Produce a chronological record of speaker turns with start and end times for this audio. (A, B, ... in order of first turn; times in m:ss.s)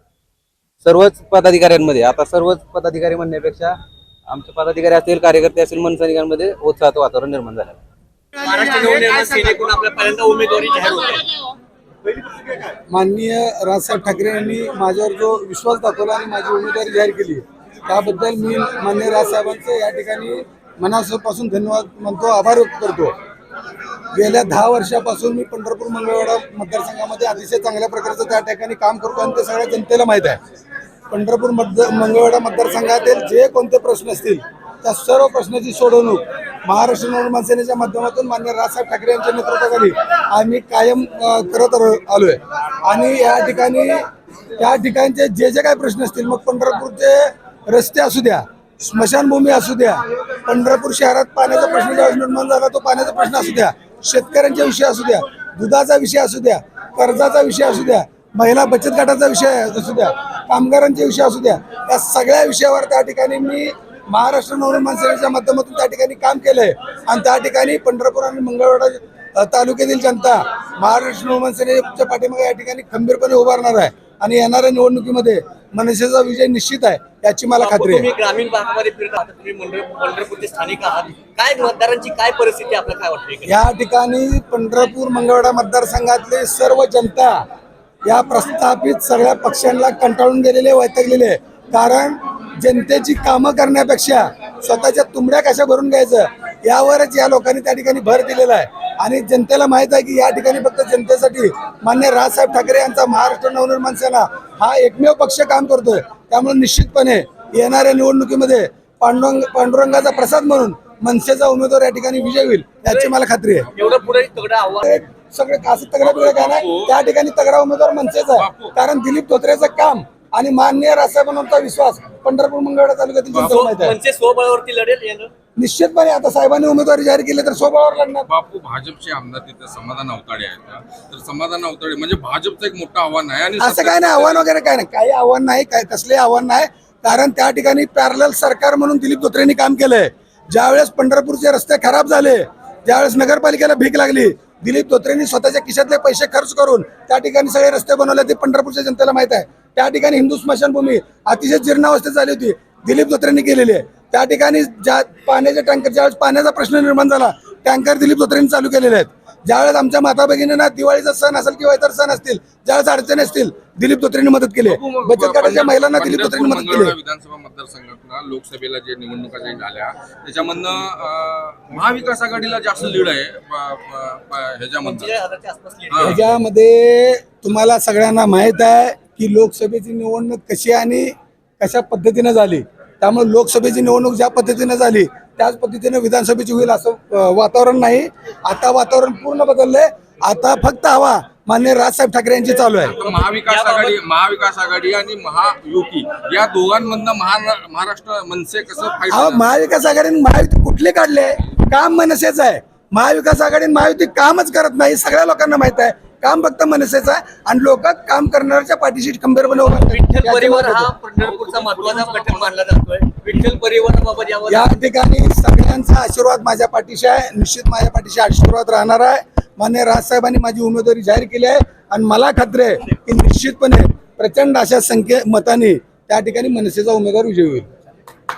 0:00.8-0:03.7 A
0:04.3-0:07.8 A
0:08.4-0:11.3 B
0:12.9-0:23.1 C
0:24.1-0:30.4 C
0:31.1-0:44.0 C
0:44.6-1:18.1 C
1:17.6-1:23.6 B
1:23.4-1:27.4 C
1:28.0-1:53.7 C
1:52.8-1:53.1 B
1:53.7-1:54.9 B
1:54.8-2:04.0 C
1:56.0-1:57.0 D
1:58.4-1:58.7 D
2:03.3-2:05.3 B
2:05.6-2:08.3 C
2:08.3-2:14.5 D
2:13.6-2:46.9 C
2:44.7-2:55.1 D
2:54.8-2:56.1 B
2:55.9-2:56.2 D
2:56.0-3:13.0 C
3:12.9-3:19.6 D
3:19.1-3:31.0 C
3:29.6-3:34.8 B
3:31.4-3:32.5 D
3:34.5-3:47.7 C